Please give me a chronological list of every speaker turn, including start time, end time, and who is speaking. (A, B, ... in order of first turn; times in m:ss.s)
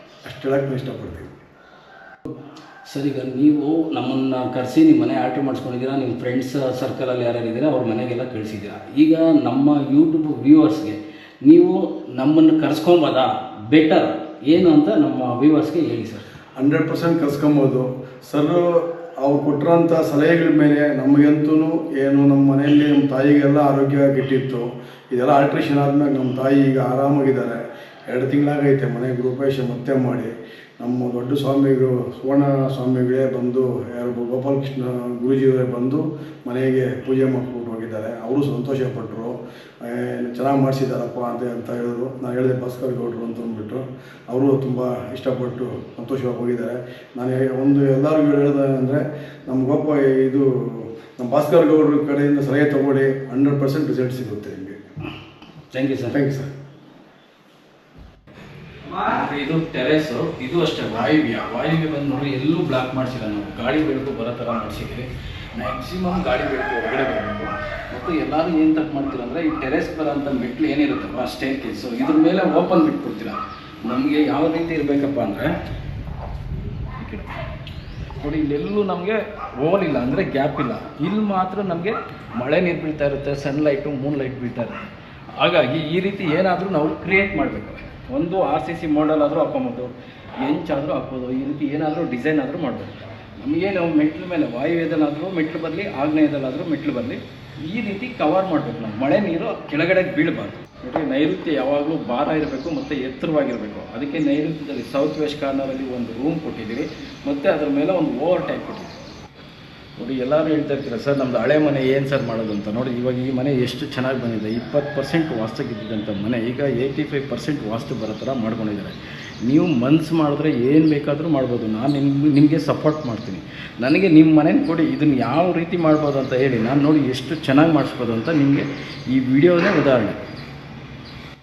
0:00.2-0:01.4 A
0:02.9-0:16.2 B
0:16.6-0:54.8 A
0:55.7-0:56.2 B
0:56.1-0:56.5 A
0:58.9-1:15.5 B
1:17.0-1:17.4 B
1:18.2-1:24.8 B
1:25.4-1:49.0 B
1:50.0-2:10.2 B